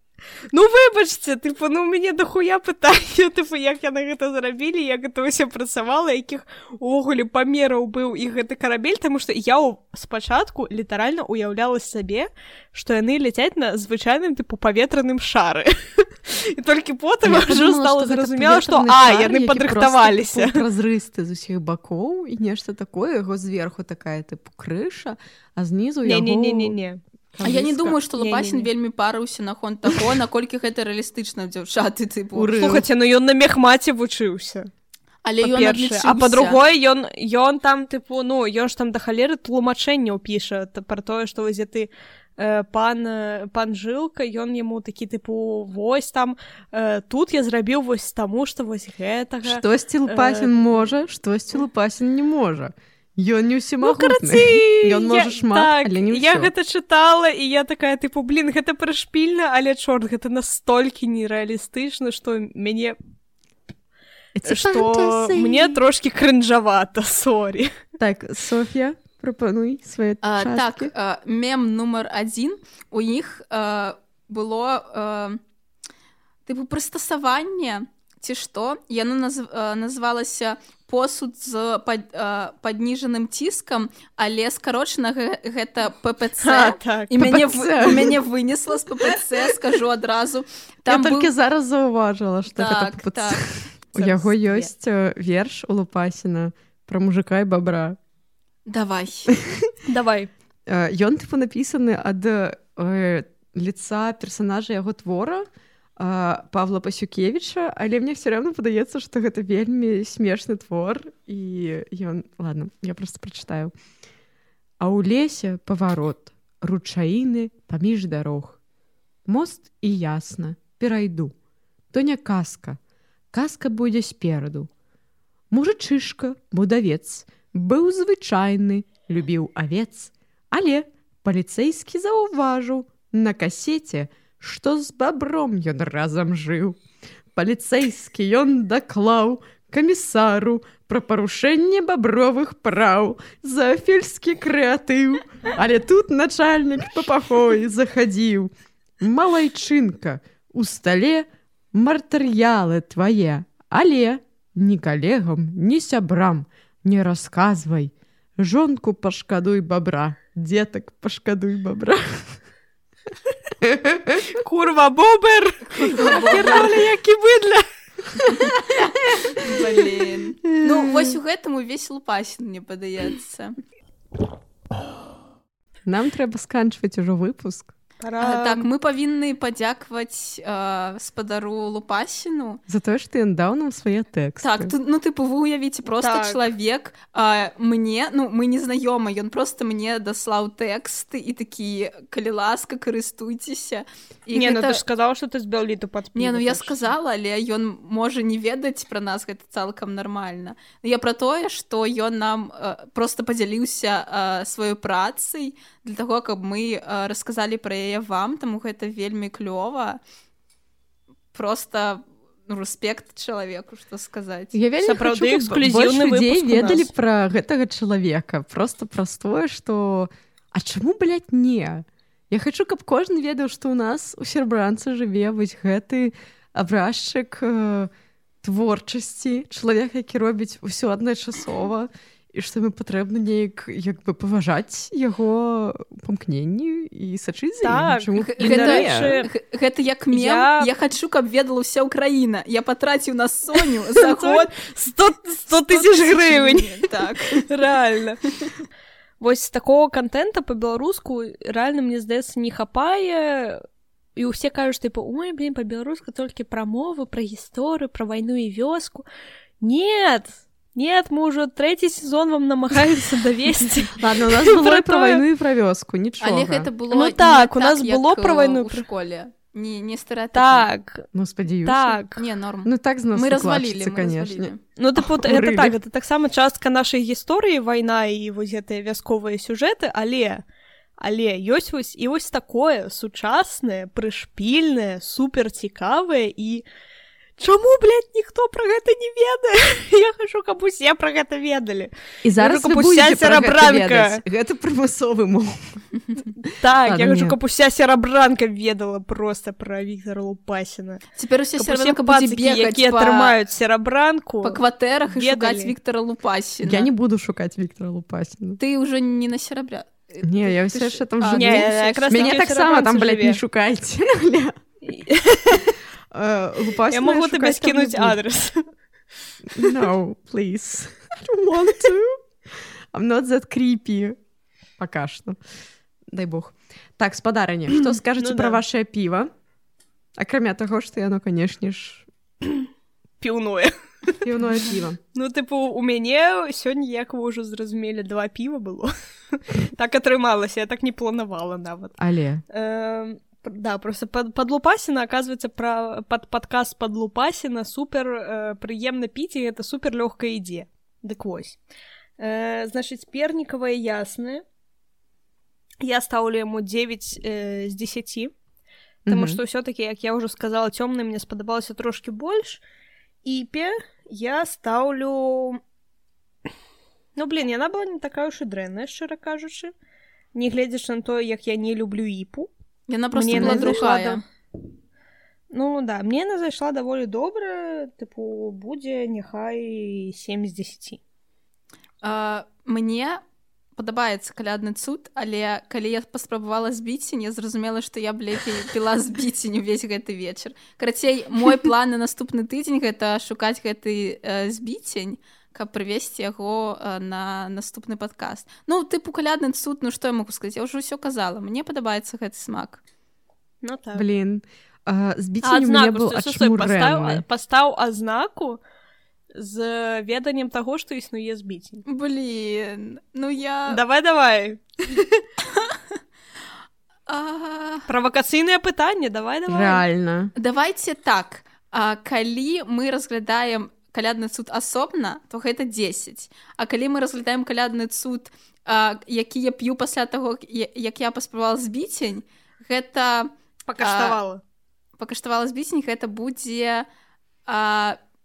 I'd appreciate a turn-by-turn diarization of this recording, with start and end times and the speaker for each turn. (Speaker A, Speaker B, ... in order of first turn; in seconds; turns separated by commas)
Speaker A: 0.5-20.6, Speaker B: 17.2-26.8, Speaker A: 26.0-27.0, Speaker B: 27.3-27.9, Speaker C: 27.4-32.6, Speaker A: 28.2-28.7, Speaker B: 32.3-32.9, Speaker A: 32.5-34.7, Speaker C: 35.2-36.6, Speaker A: 35.4-50.9, Speaker B: 49.4-56.5, Speaker A: 53.8-63.0, Speaker B: 64.3-65.8, Speaker A: 64.4-67.7, Speaker B: 68.0-70.9, Speaker C: 70.2-75.4, Speaker C: 76.5-91.3, Speaker A: 86.4-87.1, Speaker B: 87.1-88.2, Speaker B: 90.9-98.0, Speaker C: 92.5-93.4, Speaker A: 93.9-94.7, Speaker C: 98.7-99.3, Speaker B: 99.3-99.7, Speaker A: 99.9-100.3, Speaker B: 100.7-105.4, Speaker B: 106.0-113.7, Speaker B: 114.8-118.6, Speaker B: 119.2-121.3, Speaker B: 121.9-122.8, Speaker B: 123.3-124.7, Speaker B: 125.5-136.8, Speaker B: 137.3-162.4, Speaker B: 163.6-164.2, Speaker A: 164.3-167.6, Speaker C: 165.7-166.7, Speaker C: 168.3-173.6, Speaker B: 170.6-171.2, Speaker B: 175.8-177.7, Speaker A: 178.0-178.7, Speaker C: 178.2-182.6, Speaker B: 182.7-184.7, Speaker C: 184.4-194.8, Speaker A: 186.0-186.4, Speaker A: 194.3-196.8, Speaker C: 196.1-210.0, Speaker C: 211.3-214.6, Speaker B: 214.5-227.9, Speaker A: 214.8-216.9, Speaker B: 228.4-239.2, Speaker A: 237.6-239.3, Speaker C: 238.2-244.5, Speaker A: 240.1-240.7, Speaker A: 243.5-248.2, Speaker C: 245.7-247.4, Speaker A: 249.2-253.6, Speaker A: 254.2-259.1, Speaker A: 259.6-265.2, Speaker B: 263.9-266.7, Speaker C: 266.2-270.7, Speaker A: 266.9-268.9, Speaker A: 270.3-271.1, Speaker B: 271.1-272.0, Speaker A: 271.6-272.3, Speaker C: 272.1-274.6, Speaker B: 272.6-275.8, Speaker A: 274.8-280.4, Speaker A: 281.0-286.6, Speaker A: 287.4-294.2, Speaker B: 292.2-295.8, Speaker A: 296.6-301.0, Speaker B: 296.8-297.4, Speaker C: 301.2-303.3, Speaker A: 301.6-305.7, Speaker C: 304.4-306.9, Speaker B: 306.6-308.6, Speaker C: 308.6-312.4, Speaker B: 310.2-314.6, Speaker A: 311.3-313.4, Speaker A: 314.8-315.7, Speaker B: 316.1-318.2, Speaker A: 316.9-318.7, Speaker B: 319.5-324.2, Speaker A: 319.6-319.9, Speaker B: 324.8-325.4, Speaker B: 326.1-329.3, Speaker A: 327.8-328.6, Speaker B: 330.1-332.1, Speaker A: 333.2-342.0, Speaker B: 334.2-335.0, Speaker B: 342.0-342.4, Speaker A: 342.5-351.6, Speaker A: 352.2-354.4, Speaker A: 355.8-358.3, Speaker B: 359.1-359.4, Speaker A: 359.1-362.6, Speaker A: 363.2-365.6, Speaker A: 367.1-369.7, Speaker A: 370.3-372.5, Speaker C: 372.9-374.2, Speaker A: 373.1-374.2, Speaker B: 373.3-373.8, Speaker A: 375.5-381.0, Speaker C: 382.0-383.2, Speaker C: 383.8-402.8, Speaker A: 403.6-404.1, Speaker B: 403.9-407.2, Speaker A: 405.4-408.6, Speaker A: 409.4-411.8, Speaker C: 411.9-413.8, Speaker A: 413.7-415.2, Speaker C: 415.5-415.8, Speaker C: 417.1-417.9, Speaker A: 417.9-419.8, Speaker B: 419.5-420.3, Speaker C: 420.4-434.2, Speaker A: 433.7-434.4, Speaker C: 435.0-436.9, Speaker C: 437.4-438.0